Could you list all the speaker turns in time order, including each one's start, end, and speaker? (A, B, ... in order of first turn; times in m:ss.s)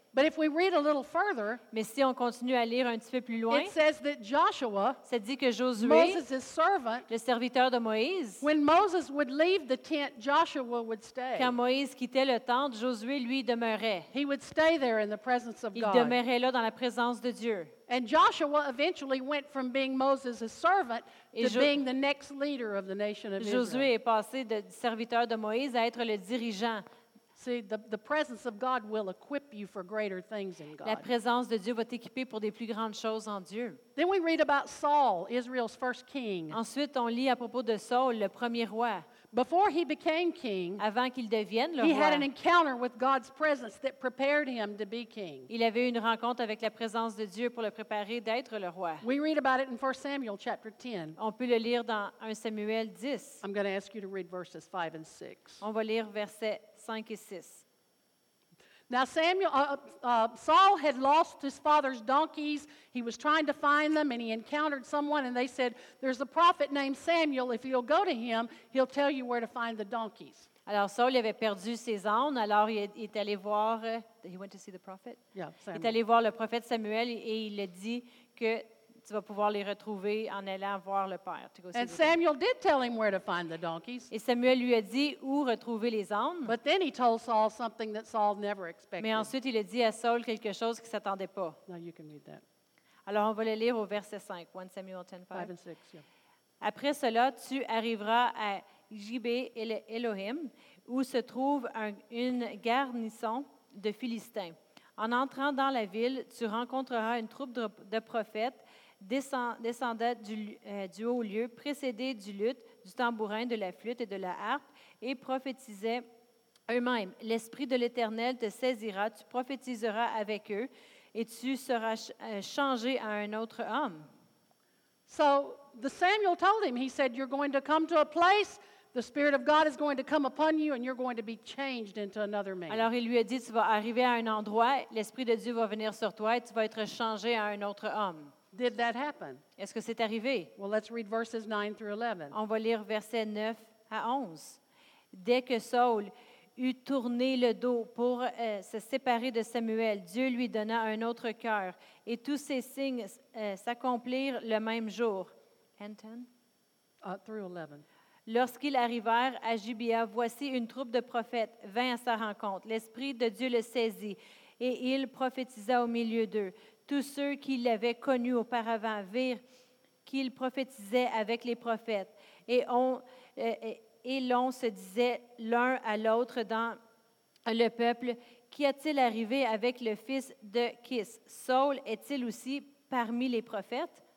0:00.1-0:01.6 A
0:01.7-0:03.7 B
0:03.5-0:05.0 A
0:05.0-0:06.2 B
0:05.8-0:07.1 A
0:07.1-0:08.4 B
0:08.4-0:11.6 A
0:11.4-0:14.1 B
0:14.1-0:16.2 A
0:15.8-0:17.7 B
0:17.9-0:23.9 A
0:21.3-0:21.8 B
0:23.4-0:26.8 B
0:27.4-0:31.1 A
0:30.8-0:33.8 B
0:34.0-0:36.6 A
0:36.5-0:39.1 B
0:39.3-0:40.8 A
0:40.8-0:42.3 B
0:41.8-0:45.5 A
0:45.5-0:49.0 B
0:49.0-0:51.2 A
0:51.2-0:53.4 B
0:53.4-0:55.6 A
0:55.6-0:57.6 B
0:58.9-1:10.5 A
1:10.7-1:15.2 B
1:15.4-1:16.0 A
1:15.7-1:22.1 B
1:21.7-1:24.1 A
1:24.1-1:26.5 B
1:26.5-1:29.3 A
1:29.0-1:31.6 B
1:31.7-1:32.4 A
1:33.1-1:35.5 B
1:35.3-1:36.0 A
1:36.6-1:56.0 B
1:56.7-2:04.1 B
2:05.1-2:12.9 A
2:12.7-2:18.3 B
2:18.5-2:19.4 A
2:19.6-2:20.5 B
2:20.6-2:22.4 A
2:22.3-2:24.6 B
2:25.1-2:36.3 B
2:37.0-2:37.8 A
2:38.3-2:49.4 B
2:50.1-2:56.8 B
2:57.5-3:04.0 B